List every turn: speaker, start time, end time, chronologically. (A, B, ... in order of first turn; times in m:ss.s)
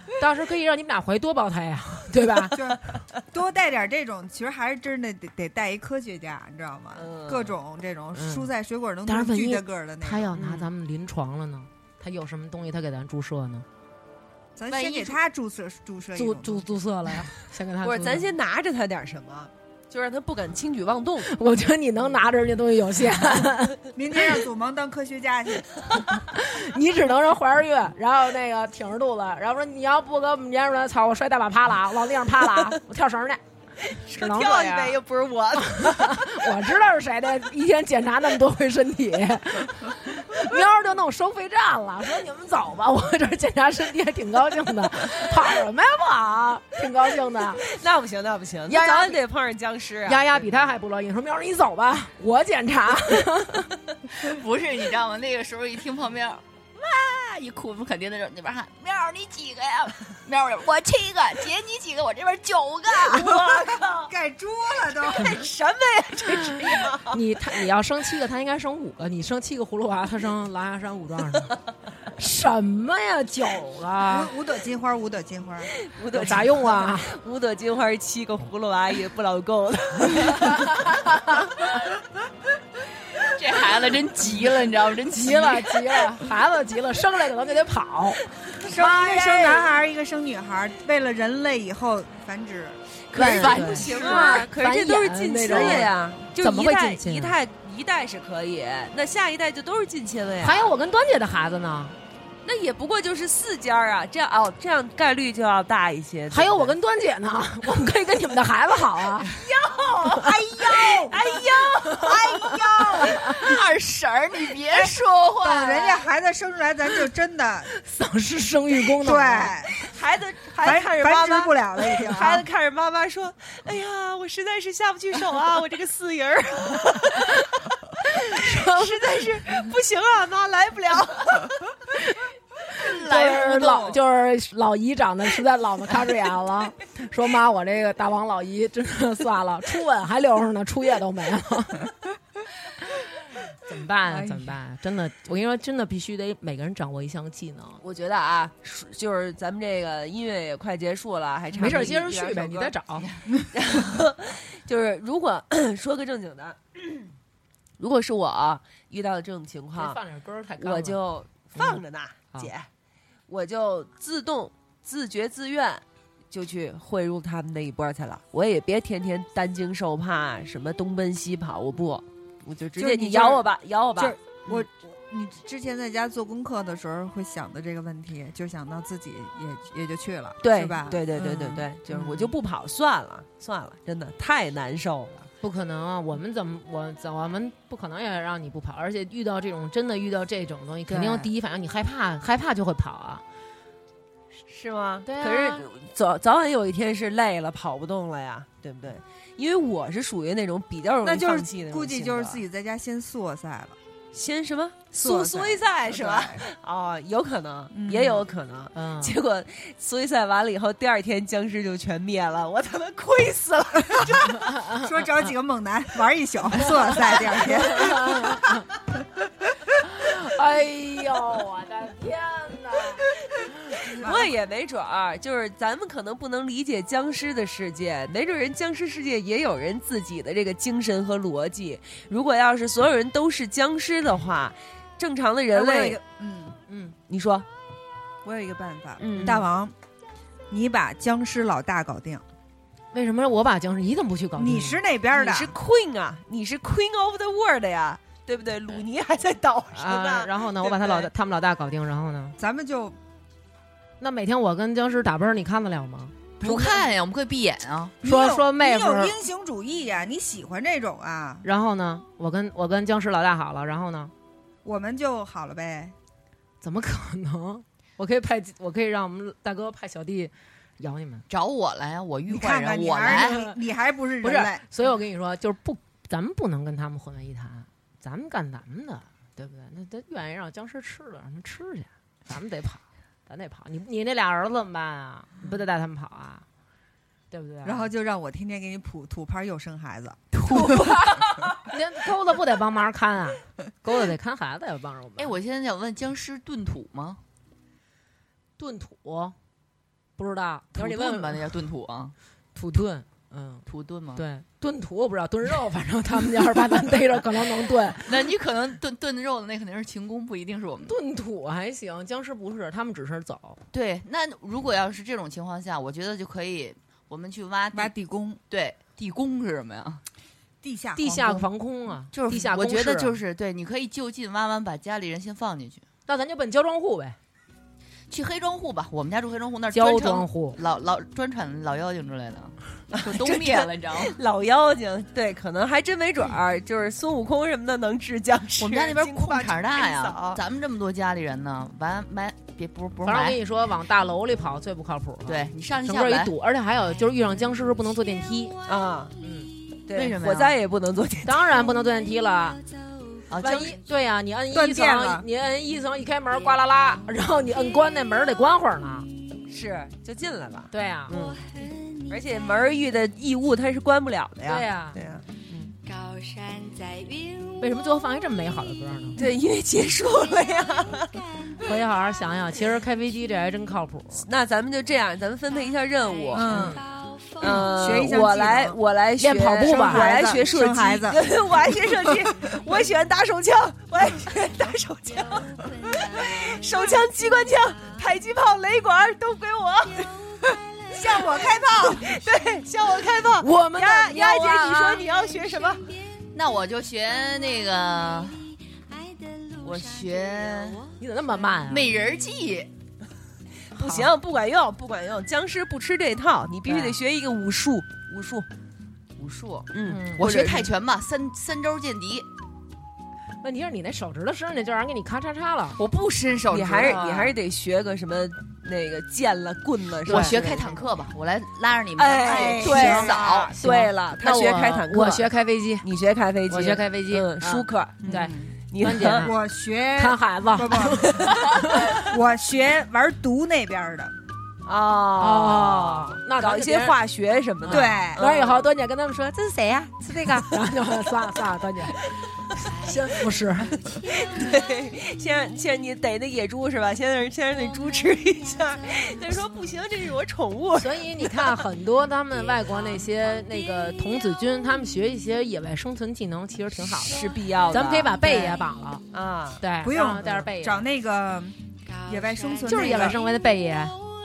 0:00.2-0:02.6 A
0:02.5-0:10.4 B
0:07.0-0:07.6 C
0:08.2-0:08.5 A
0:09.1-0:13.7 A
0:10.4-0:10.6 C
0:14.6-0:16.6 B
0:14.7-0:15.2 D
0:16.1-0:18.3 A
0:17.8-0:21.3 C
0:21.2-0:24.4 A
0:24.0-0:25.8 B
0:26.1-0:33.4 A
0:33.9-0:34.3 C
0:34.1-0:35.0 A
0:34.2-0:35.9 D
0:35.6-0:47.6 A
0:47.6-0:50.4 C
0:48.7-0:49.2 A
0:50.1-0:53.7 A
0:54.1-1:03.4 D
1:03.0-1:04.1 C
1:03.2-1:05.4 B
1:05.1-1:07.2 C
1:06.5-1:11.6 A
1:12.2-1:14.3 A
1:14.1-1:15.7 B
1:15.8-1:20.7 C
1:16.1-1:17.2 A
1:20.2-1:21.6 A
1:23.2-1:25.9 D
1:25.1-1:29.7 A
1:28.6-1:32.8 B
1:33.1-1:34.4 D
1:33.1-1:37.4 A
1:33.1-1:40.7 C
1:33.7-1:34.4 B
1:35.5-1:35.9 B
1:40.4-1:42.0 A
1:42.4-1:46.8 C
1:46.3-1:49.4 A
1:49.2-1:53.1 C
1:50.1-1:51.2 B
1:51.9-1:53.2 B
1:53.1-1:56.1 D
1:54.7-1:57.7 B
1:57.8-1:59.6 A
1:59.0-1:59.7 B
1:59.7-2:11.5 C
2:00.6-2:02.4 B
2:08.3-2:09.0 A
2:12.8-2:14.0 D
2:12.8-2:21.9 A
2:23.7-2:27.8 A
2:24.1-2:24.6 B
2:27.8-2:32.2 C
2:31.5-2:32.7 B
2:31.6-2:33.1 A
2:33.5-2:37.0 C
2:37.8-2:40.0 C
2:39.8-2:41.0 A
2:40.6-2:42.7 C
2:41.6-2:41.8 A
2:43.3-2:54.7 C
2:52.8-3:02.3 B
3:00.4-3:05.3 C
3:05.4-3:13.2 A
3:10.9-3:11.3 B
3:14.5-3:22.4 C
3:15.1-3:15.7 A
3:21.0-3:23.8 B
3:24.1-3:34.4 C
3:25.0-3:26.4 B
3:27.7-3:28.2 B
3:28.8-3:29.2 A
3:34.0-3:38.6 B
3:34.4-3:35.1 A
3:36.6-3:38.6 A
3:39.8-3:43.0 A
3:43.8-3:44.3 B
3:44.0-3:56.0 C
3:55.5-3:56.6 B
3:56.7-3:57.0 A
3:57.1-3:57.5 C
3:58.2-3:59.7 B
3:59.0-3:59.5 C
4:00.5-4:02.2 B
4:02.9-4:04.8 A
4:04.4-4:05.6 B
4:05.1-4:10.7 C
4:09.7-4:12.4 A
4:10.7-4:11.1 B
4:12.4-4:13.0 B
4:14.0-4:16.2 A
4:16.4-4:18.0 D
4:16.4-4:16.9 B
4:18.0-4:21.5 B
4:18.0-4:19.2 A
4:21.4-4:24.1 A
4:24.6-4:25.9 B
4:26.6-4:31.3 A
4:31.3-4:33.5 D
4:32.3-4:34.6 B
4:33.1-4:33.5 A
4:34.2-4:46.4 A
4:47.3-4:47.9 A
4:47.6-4:51.5 B
4:50.4-4:55.4 A
4:55.2-4:57.2 D
4:58.6-4:59.4 A
5:00.2-5:01.5 A
5:00.8-5:02.1 D
5:02.6-5:03.6 A
5:03.7-5:04.3 D
5:04.2-5:08.2 A
5:08.0-5:11.0 D
5:10.9-5:13.6 A
5:13.7-5:17.9 D
5:17.7-5:18.4 B
5:18.5-5:20.0 D
5:20.6-5:21.4 B
5:21.0-5:23.2 A
5:22.1-5:25.8 D
5:26.1-5:27.2 A
5:28.1-5:34.2 D
5:29.7-5:30.6 A
5:32.9-5:40.4 C
5:38.6-5:43.4 D
5:43.0-5:48.6 A
5:45.3-5:46.3 D
5:48.7-5:49.1 C
5:49.2-5:49.5 A
5:49.9-5:51.4 C
5:49.9-5:50.6 D
5:51.2-5:52.6 A
5:53.3-5:53.8 D
5:53.4-5:59.1 A
5:54.5-5:55.3 B
5:59.5-6:01.4 C
6:00.7-6:01.2 A
6:01.5-6:02.1 E
6:02.1-6:05.8 C
6:04.4-6:05.0 A
6:05.8-6:07.7 E
6:07.6-6:09.2 A
6:09.2-6:11.2 C
6:10.2-6:11.6 E
6:11.6-6:14.3 A
6:14.2-6:16.8 C
6:16.0-6:18.0 E
6:16.4-6:16.8 B
6:16.4-6:16.8 A
6:17.4-6:30.1 C
6:17.4-6:18.8 B
6:19.2-6:20.2 A
6:19.6-6:21.2 B
6:22.4-6:22.6 E
6:25.1-6:28.1 E
6:29.9-6:32.1 E
6:31.0-6:32.1 B
6:31.8-6:35.9 C
6:33.4-6:35.1 A
6:35.1-6:36.3 E
6:36.3-6:38.4 D
6:38.9-6:41.6 E
6:39.6-6:40.8 D
6:41.0-6:42.0 A
6:41.7-6:42.7 D
6:43.7-6:48.5 C
6:43.8-6:44.1 A
6:46.7-6:47.0 A
6:49.2-6:52.3 D
6:49.7-6:50.7 C
6:49.8-6:50.4 A
6:53.4-6:55.8 A
6:55.8-6:57.3 D
6:56.5-7:00.8 C
7:00.1-7:00.4 A
7:00.1-7:03.6 D
7:02.0-7:05.3 C
7:02.2-7:03.5 B
7:02.6-7:05.9 A
7:05.8-7:09.3 C
7:06.5-7:09.4 A
7:08.0-7:08.6 B
7:09.2-7:14.1 B
7:10.0-7:12.0 A
7:14.6-7:18.6 C
7:15.2-7:17.0 A
7:17.6-7:22.0 A
7:17.7-7:18.2 B
7:22.5-7:23.8 A
7:22.6-7:25.0 E
7:23.6-7:31.6 C
7:28.8-7:29.6 E
7:30.8-7:39.0 A
7:32.5-7:33.5 E
7:37.0-7:38.5 C
7:38.0-7:38.6 E
7:39.1-7:39.6 C
7:39.6-7:40.8 A
7:39.8-7:43.2 B
7:41.9-7:43.2 E
7:42.7-7:44.0 A